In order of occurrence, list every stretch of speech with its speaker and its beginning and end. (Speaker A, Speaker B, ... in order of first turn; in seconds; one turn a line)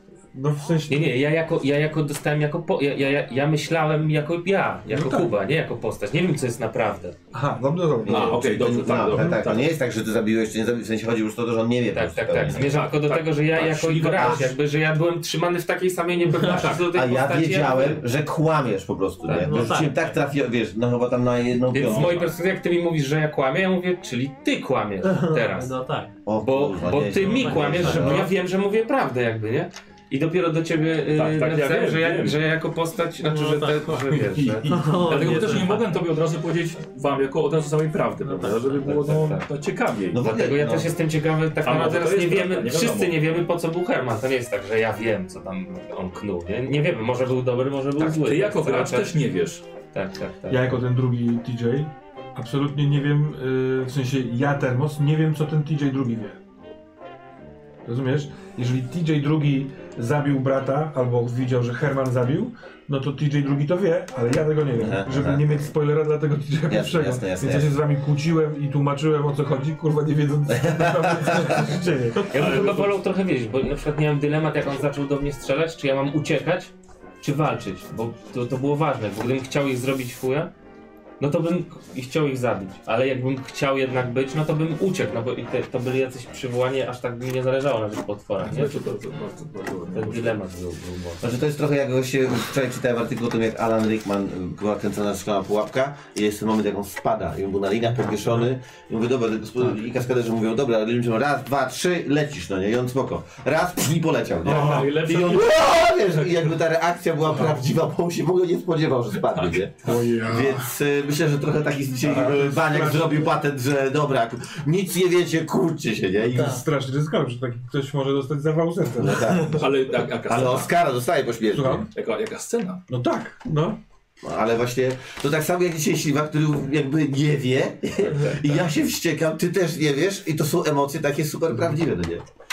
Speaker A: 0.3-1.1
Speaker B: 0.9-7.2
Speaker A: 4.9-5.3
Speaker A: 7.3-8.5
Speaker C: 8.0-12.8
Speaker D: 8.1-9.7
Speaker A: 9.1-9.4
Speaker B: 11.9-18.0
Speaker D: 12.6-14.5
Speaker C: 14.2-14.5
Speaker E: 16.2-16.8
Speaker C: 16.3-22.2
Speaker B: 19.2-20.1
Speaker E: 19.3-20.0
Speaker B: 21.7-25.7
Speaker D: 21.8-22.4
Speaker E: 25.0-26.1
Speaker C: 26.3-28.3
Speaker B: 26.4-34.7
Speaker E: 27.2-28.2
Speaker D: 31.1-32.5
Speaker E: 33.2-36.0
Speaker A: 34.7-35.1
Speaker D: 35.0-40.2
Speaker E: 38.2-39.4
Speaker B: 38.8-39.5
Speaker C: 40.1-41.0
Speaker B: 40.2-49.1
Speaker D: 41.6-43.4
Speaker D: 48.0-49.6
Speaker B: 49.9-50.8
Speaker A: 50.5-56.4
Speaker A: 57.9-72.3
Speaker C: 64.8-65.5
Speaker C: 66.7-67.8
Speaker C: 70.5-71.6
Speaker B: 72.3-80.5
Speaker D: 72.3-73.0
Speaker B: 81.2-88.8
Speaker D: 88.4-90.4
Speaker B: 89.9-91.3
Speaker C: 91.2-116.6
Speaker D: 104.4-106.6
Speaker A: 104.4-105.0
Speaker A: 107.3-107.6
Speaker D: 109.2-110.0
Speaker A: 109.8-110.7
Speaker A: 112.0-113.3
Speaker A: 116.3-119.2
Speaker C: 119.0-121.9
Speaker D: 119.5-120.7
Speaker A: 121.5-121.9
Speaker D: 121.9-122.8
Speaker A: 122.9-123.8
Speaker C: 124.2-132.2
Speaker B: 128.0-128.7